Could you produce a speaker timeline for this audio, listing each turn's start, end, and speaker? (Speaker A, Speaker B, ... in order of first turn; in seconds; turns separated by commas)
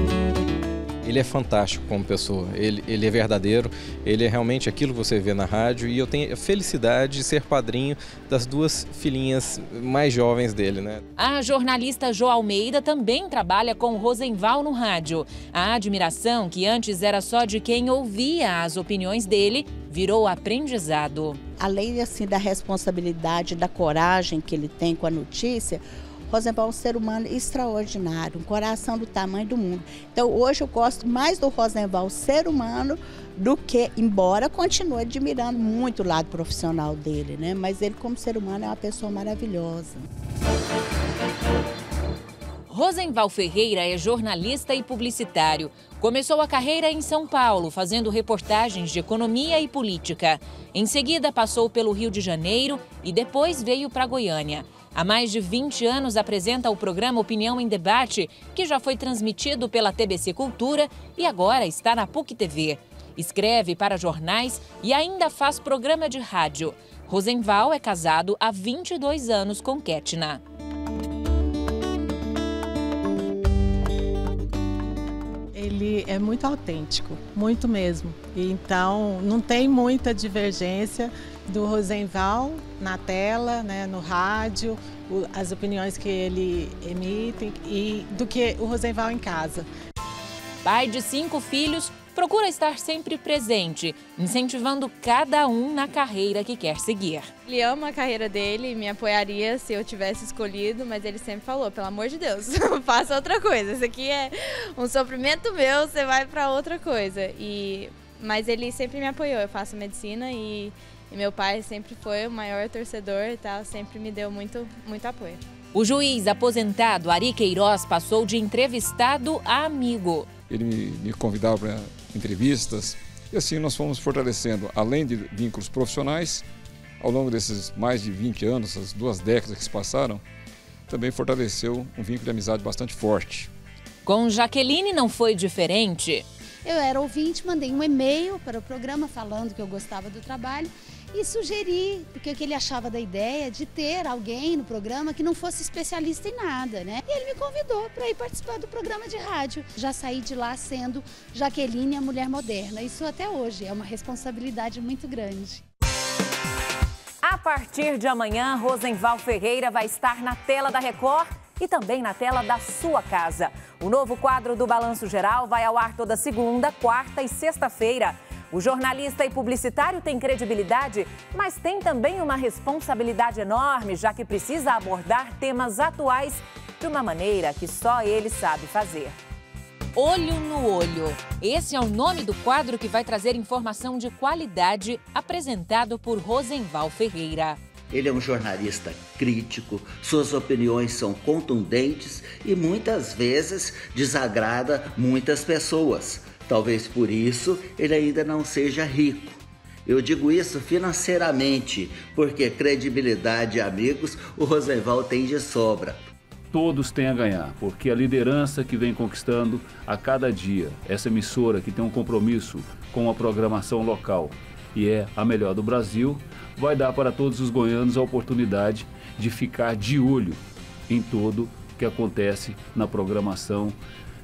Speaker A: 1.0-11.0, Speaker B: 11.2-21.4, Speaker C: 21.6-40.0, Speaker B: 42.7-70.4, Speaker D: 75.5-89.7, Speaker B: 90.6-97.3, Speaker E: 97.5-115.4, Speaker B: 115.7-120.3, Speaker F: 120.5-126.4, Speaker F: 127.0-130.2, Speaker F: 130.9-133.5, Speaker B: 134.0-136.2, Speaker G: 136.6-155.6, Speaker B: 157.2-179.2, Speaker B: 179.9-187.6, Speaker H: 187.9-206.0, Speaker I: 206.5-223.8